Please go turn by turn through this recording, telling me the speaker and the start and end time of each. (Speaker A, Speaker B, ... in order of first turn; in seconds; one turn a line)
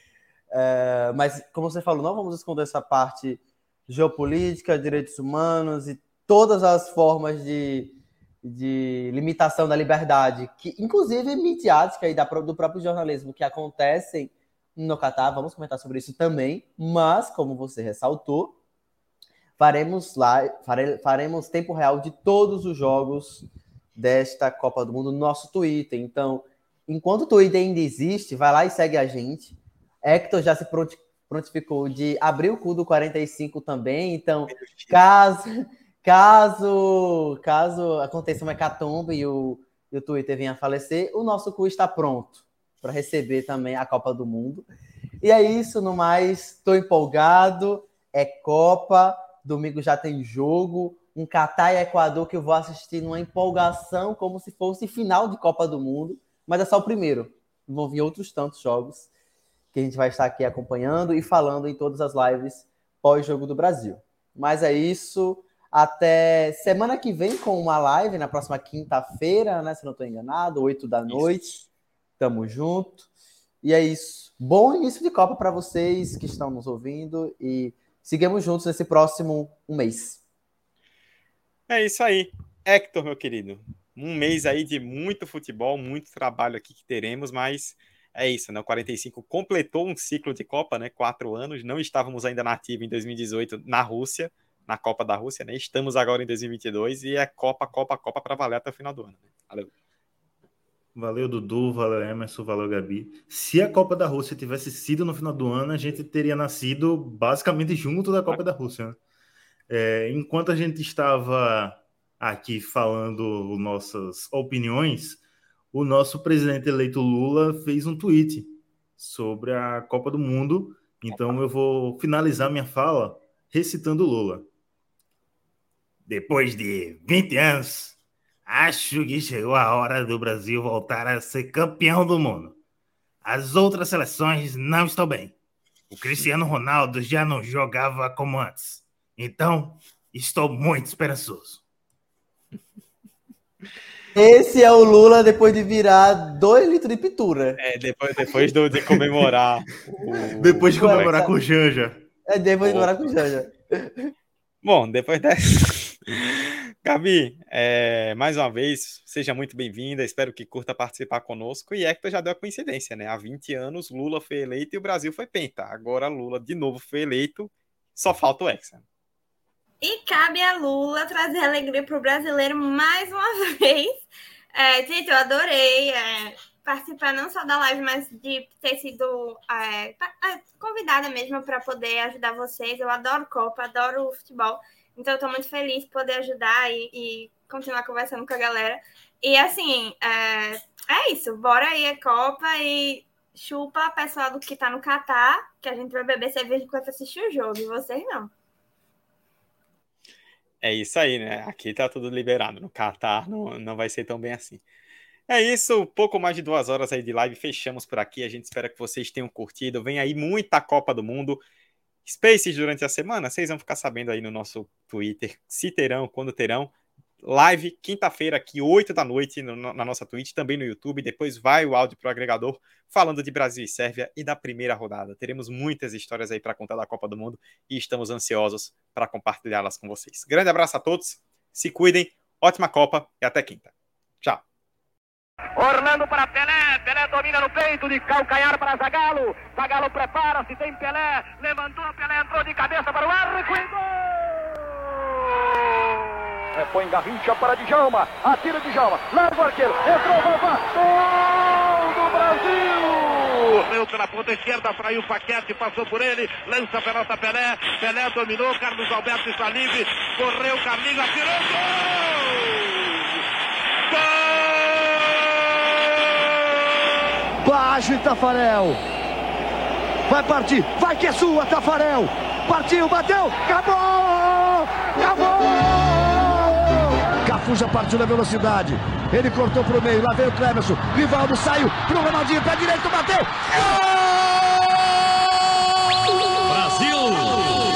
Speaker A: 0.5-18.6
Speaker A: 19.6-44.7
Speaker B: 34.5-35.0
Speaker A: 45.2-59.1
Speaker A: 59.7-71.6
Speaker B: 71.1-71.5
Speaker A: 72.2-73.1
Speaker A: 73.6-80.2
Speaker B: 81.7-99.7
Speaker C: 101.0-109.0
Speaker C: 109.7-115.2
Speaker C: 115.7-124.5
Speaker C: 126.1-132.6
Speaker C: 133.2-135.4
Speaker C: 135.9-141.6
Speaker A: 144.2-147.6
Speaker B: 147.6-151.1
Speaker C: 150.4-152.0
Speaker A: 150.7-151.3
Speaker A: 152.3-154.1
Speaker B: 152.6-153.0
Speaker B: 154.6-168.8
Speaker D: 169.8-198.3
Speaker B: 200.6-204.6
Speaker B: 205.3-211.4
Speaker B: 212.1-234.4
Speaker E: 235.6-243.8
Speaker E: 246.6-253.0
Speaker F: 253.3-262.8
Speaker F: 263.9-265.2
Speaker G: 267.4-268.8
Speaker G: 270.1-276.7
Speaker G: 277.2-283.3
Speaker F: 286.5-287.4